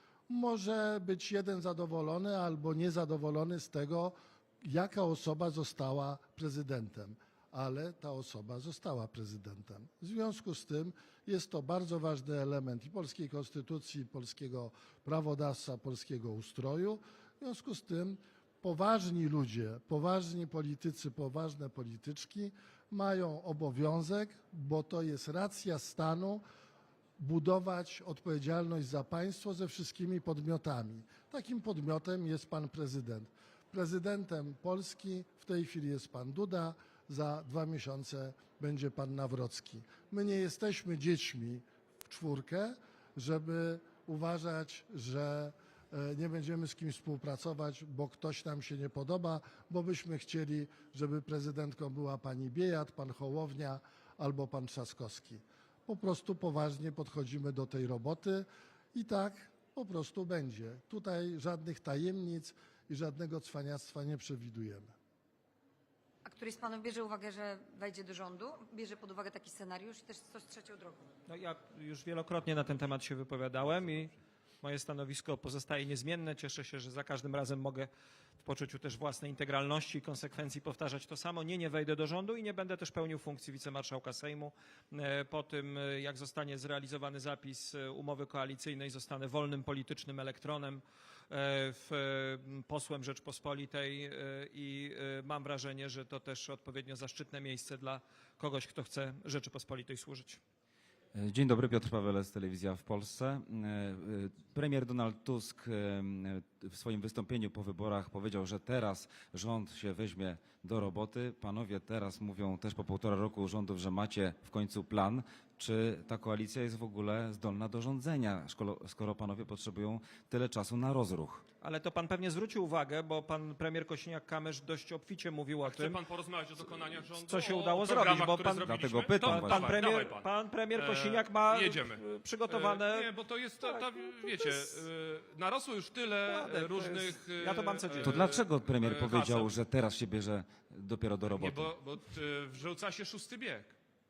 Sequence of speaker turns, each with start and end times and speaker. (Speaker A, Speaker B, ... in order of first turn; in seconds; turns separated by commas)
Speaker A: 0.3-26.4, Speaker A: 27.2-64.9, Speaker B: 66.2-71.1, Speaker C: 71.3-77.9, Speaker C: 78.4-100.4, Speaker D: 101.1-121.4, Speaker C: 121.6-126.0, Speaker E: 125.6-139.6, Speaker C: 127.2-128.7, Speaker D: 128.7-129.9, Speaker C: 129.2-133.1, Speaker C: 133.6-134.7, Speaker C: 136.3-138.3, Speaker D: 138.0-141.7, Speaker E: 141.3-143.8